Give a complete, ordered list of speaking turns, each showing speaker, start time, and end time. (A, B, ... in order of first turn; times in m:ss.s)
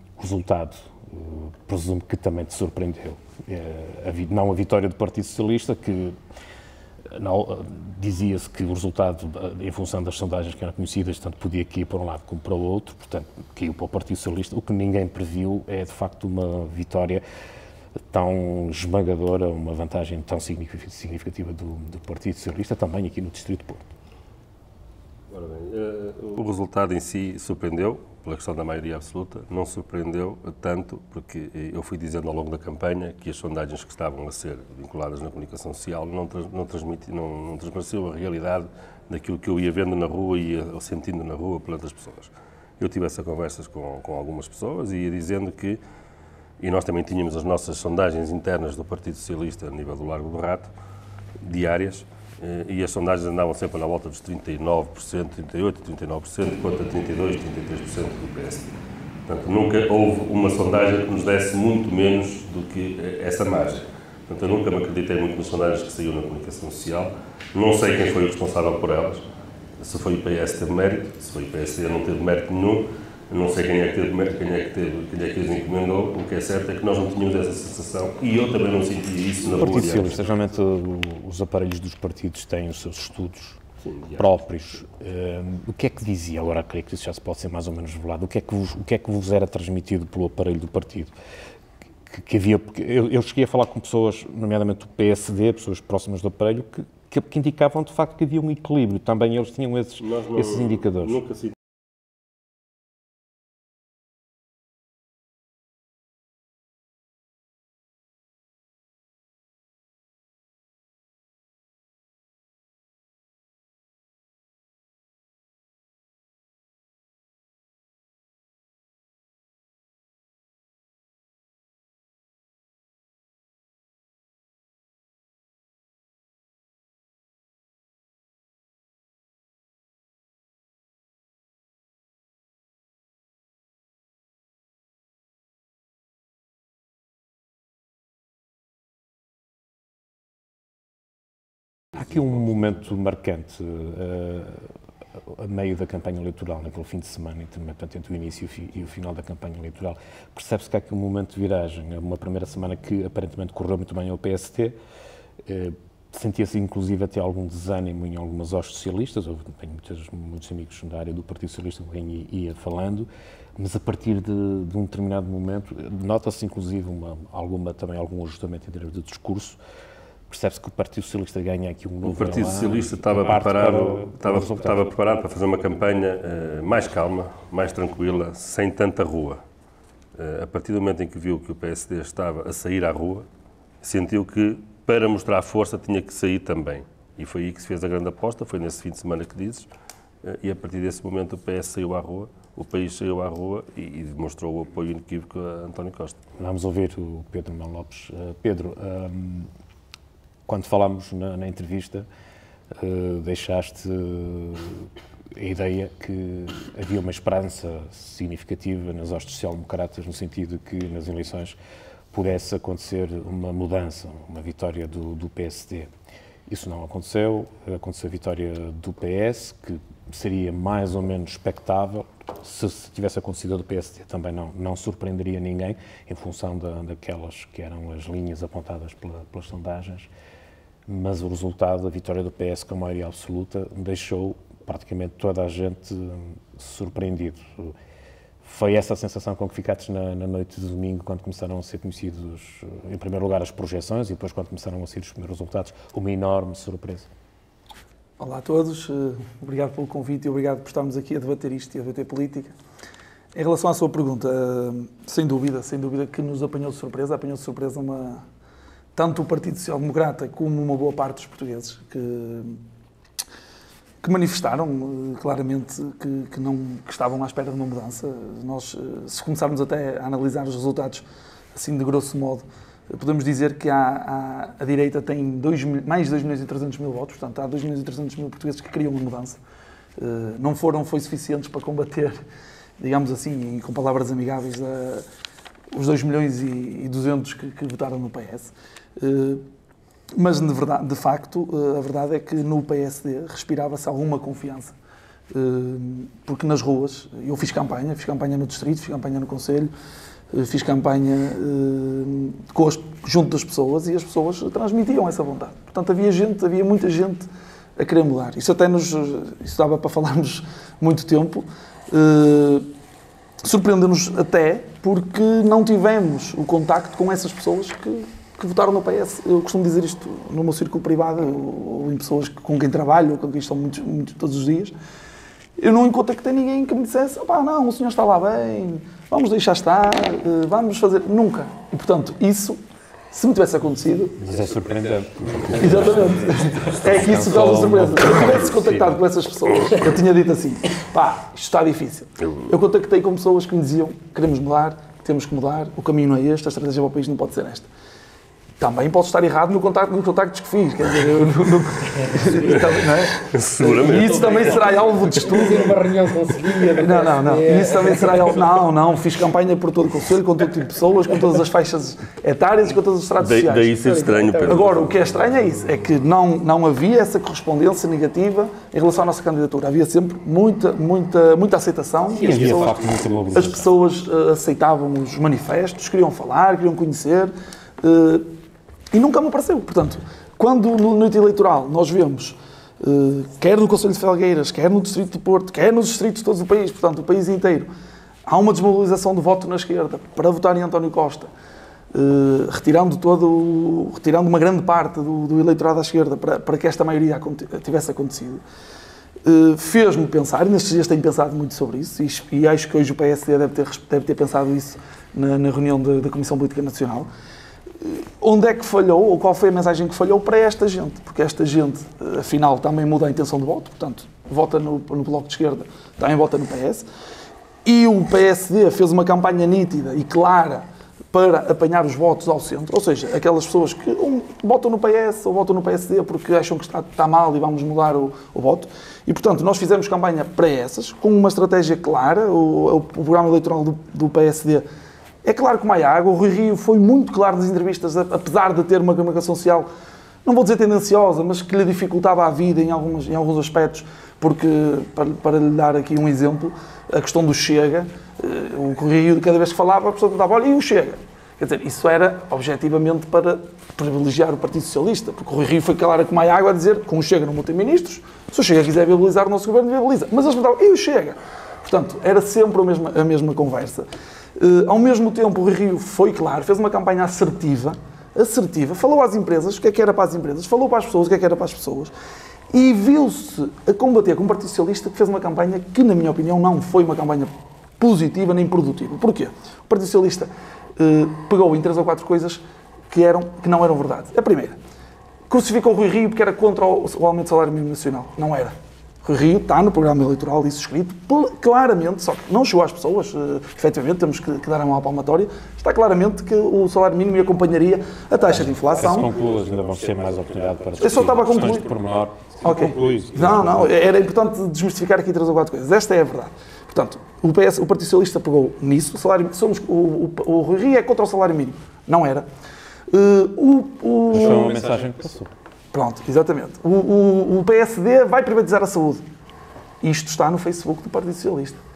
0:00.2-0:06.2 A
0:07.1-0:17.2 A
0:18.1-0:23.9 A
0:25.3-0:45.8 B
0:46.6-0:50.7 B
0:51.4-0:58.7 B
0:59.3-1:09.2 B
1:09.8-1:20.1 B
1:19.6-1:23.6 A
1:23.9-1:24.2 B
1:24.2-1:31.1 A
1:32.1-1:41.2 A
1:40.0-1:40.4 B
1:41.1-1:41.5 B
2:21.9-2:24.7 A
2:25.3-2:34.7 A
2:35.4-2:49.6 A
2:50.3-2:55.2 A
2:52.0-2:59.4 B
3:00.2-3:03.2 B
3:03.8-3:09.7 B
3:10.2-3:16.2 B
3:16.4-3:19.5 A
3:20.5-3:22.0 A
3:22.7-3:31.6 A
3:32.1-3:35.9 A
3:36.5-3:50.1 A
3:50.9-3:57.7 A
3:58.4-4:07.1 A
4:08.2-4:12.5 C
4:13.3-4:18.2 C
4:19.0-4:22.6 C
4:24.0-4:31.0 C
4:31.5-4:39.4 C
4:40.0-4:42.2 C
4:42.8-4:45.0 C
4:45.7-4:49.4 C
4:50.1-4:54.7 C
4:55.3-4:59.7 C
5:00.3-5:12.7 C
5:13.4-5:24.7 C
5:25.6-5:32.6 C
5:33.1-5:34.2 C
5:34.2-5:39.0 A
5:35.5-5:47.7 C
5:48.6-5:55.8 C
5:52.4-5:55.0 B
5:54.1-5:58.3 D
5:56.8-6:03.9 C
6:03.2-6:05.5 B
6:03.8-6:04.6 D
6:04.4-6:18.3 C
6:12.2-6:13.7 A
6:18.9-6:27.7 C
6:28.2-6:31.3 C
6:31.9-6:38.4 C
6:39.2-6:47.1 C
6:47.8-6:56.8 C
6:57.6-7:14.6 C
7:15.2-7:19.7 C
7:20.2-7:43.8 C
7:44.4-7:51.9 C
7:52.5-8:04.6 C
8:05.3-8:19.1 C
8:18.7-8:23.8 A
8:20.8-8:21.7 C
8:22.4-8:32.2 C
8:32.9-8:34.7 C
8:34.1-8:35.3 A
8:35.7-8:39.0 C
8:39.8-8:41.6 C